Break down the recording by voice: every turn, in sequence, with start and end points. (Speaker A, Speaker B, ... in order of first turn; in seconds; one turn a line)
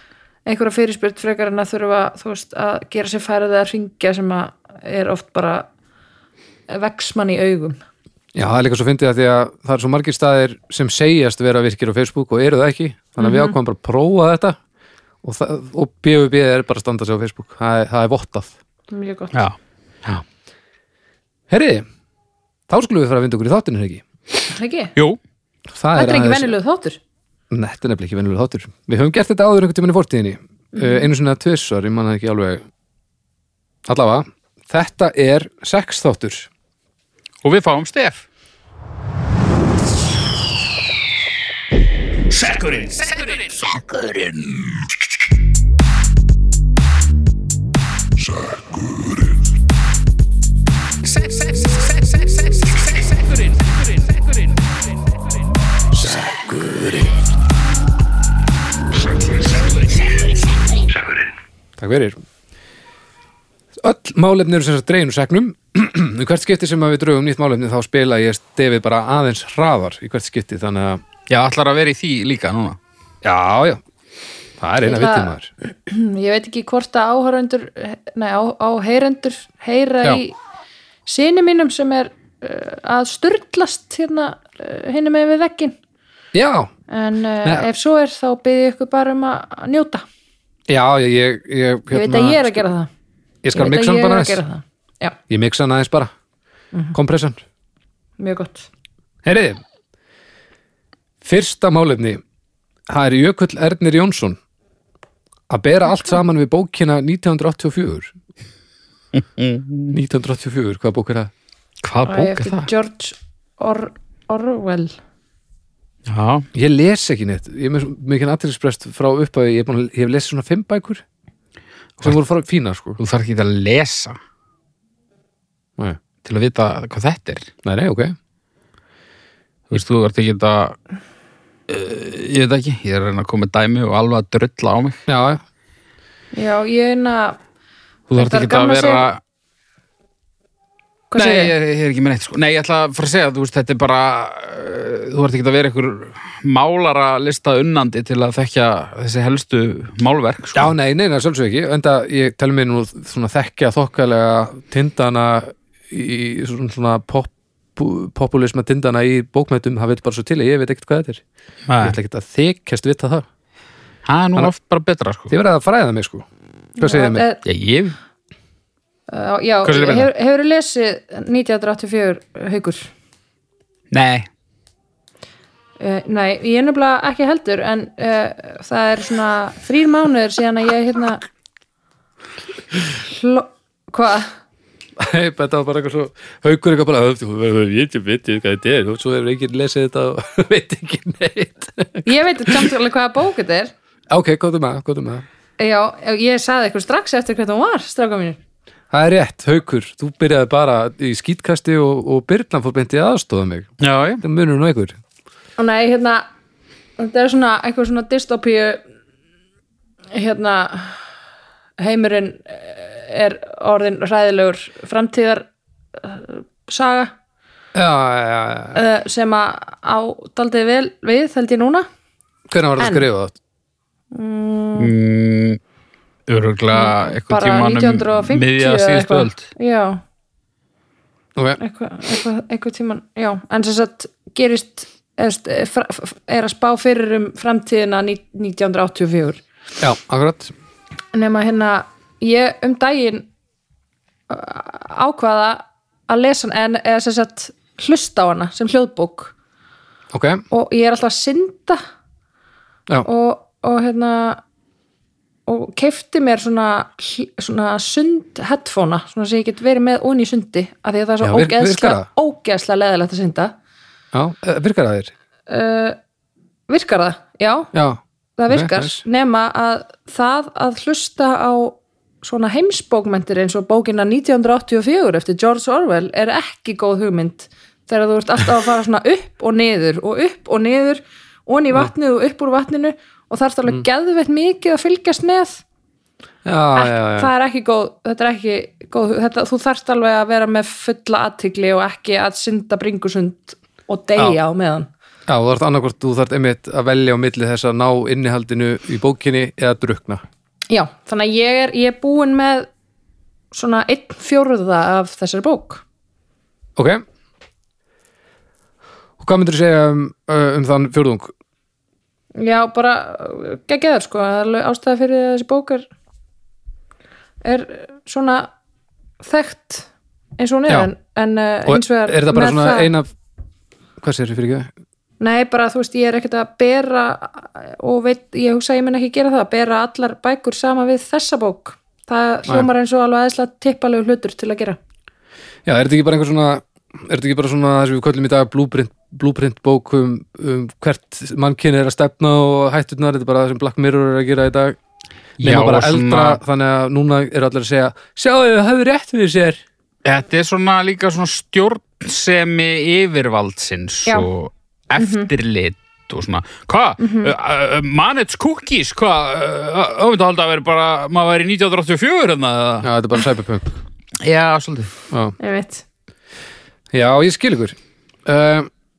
Speaker A: 0.5-5.7
Speaker A: 6.7-7.8
Speaker B: 8.3-14.6
Speaker A: 13.2-13.6
Speaker B: 15.2-18.5
Speaker A: 18.9-19.4
Speaker B: 21.5-21.8
Speaker B: 22.7-24.0
Speaker A: 24.5-24.9
Speaker B: 25.7-26.5
Speaker A: 25.9-27.0
Speaker B: 27.5-32.6
Speaker A: 30.8-31.0
Speaker B: 33.9-36.5
Speaker C: 37.4-38.2
Speaker C: 42.3-44.7
Speaker C: 51.0-53.0
Speaker B: 55.9-57.2
Speaker B: 61.8-62.2
Speaker B: 63.8-71.0
Speaker C: 71.3-72.8
Speaker B: 73.2-73.8
Speaker B: 74.6-75.5
Speaker A: 74.8-80.3
Speaker A: 81.1-85.8
Speaker B: 86.3-86.7
Speaker A: 86.9-90.0
Speaker B: 90.7-92.6
Speaker A: 91.9-92.9
Speaker B: 93.4-94.4
Speaker A: 93.5-95.2
Speaker B: 95.3-96.1
Speaker B: 96.9-97.4
Speaker A: 98.2-98.7
Speaker B: 99.2-99.6
Speaker B: 101.2-102.2
Speaker B: 102.9-104.4
Speaker B: 105.5-108.1
Speaker C: 109.1-109.9
Speaker B: 109.9-111.3
Speaker C: 111.8-112.7
Speaker A: 112.0-115.0
Speaker C: 116.1-116.5
Speaker B: 116.5-121.0
Speaker B: 122.0-123.0
Speaker C: 123.0-124.2
Speaker C: 126.2-127.5
Speaker B: 127.6-128.1
Speaker C: 129.7-130.8
Speaker C: 131.7-135.0
Speaker B: 135.1-135.4
Speaker A: 136.3-137.4
Speaker C: 138.1-139.2
Speaker A: 138.1-139.1
Speaker A: 141.1-141.5
Speaker C: 141.2-150.7
Speaker B: 150.5-161.2
Speaker C: 161.7-162.0
Speaker B: 161.8-163.2
Speaker C: 164.1-165.3
Speaker B: 165.3-166.2
Speaker A: 166.8-167.4
Speaker B: 166.8-167.2
Speaker C: 167.4-167.9
Speaker A: 169.1-172.9
Speaker C: 169.6-170.1
Speaker C: 173.9-174.3
Speaker A: 175.8-181.2
Speaker A: 182.9-184.3
Speaker B: 185.0-192.7
Speaker A: 192.0-193.7
Speaker B: 194.1-195.2
Speaker A: 195.6-198.4
Speaker B: 198.9-203.7
Speaker C: 203.8-204.2
Speaker B: 204.2-205.0
Speaker A: 205.6-206.2
Speaker A: 207.0-208.8
Speaker A: 210.1-211.0
Speaker A: 211.8-217.1
Speaker B: 217.7-218.8
Speaker A: 218.7-221.9
Speaker B: 222.5-223.4
Speaker A: 222.8-223.0
Speaker A: 224.1-224.9
Speaker C: 224.8-225.6
Speaker C: 226.3-229.4
Speaker A: 226.7-230.0
Speaker A: 231.6-239.4
Speaker B: 239.8-240.5
Speaker A: 241.1-243.3
Speaker A: 244.3-249.3
Speaker B: 250.1-250.4
Speaker A: 250.5-251.8
Speaker A: 253.0-254.4
Speaker A: 255.5-263.5
Speaker B: 261.2-262.1
Speaker B: 264.1-265.1
Speaker A: 265.5-266.0
Speaker A: 266.7-267.7
Speaker B: 267.7-269.0
Speaker A: 268.4-285.6
Speaker B: 286.4-287.3
Speaker A: 286.7-294.9
Speaker B: 295.3-300.2
Speaker A: 300.7-302.7
Speaker A: 303.5-305.8
Speaker B: 306.8-307.0
Speaker B: 309.2-311.3
Speaker A: 312.4-315.8
Speaker A: 317.4-318.5
Speaker A: 319.2-322.9
Speaker B: 321.6-323.1
Speaker B: 324.0-324.7
Speaker A: 325.2-334.8
Speaker B: 335.6-344.8
Speaker C: 345.4-346.4
Speaker B: 345.4-349.6
Speaker C: 350.0-362.9
Speaker A: 355.0-355.3
Speaker A: 357.0-357.3
Speaker B: 362.8-363.7
Speaker C: 364.2-364.9
Speaker B: 365.1-365.3
Speaker A: 365.4-365.8
Speaker B: 366.9-368.7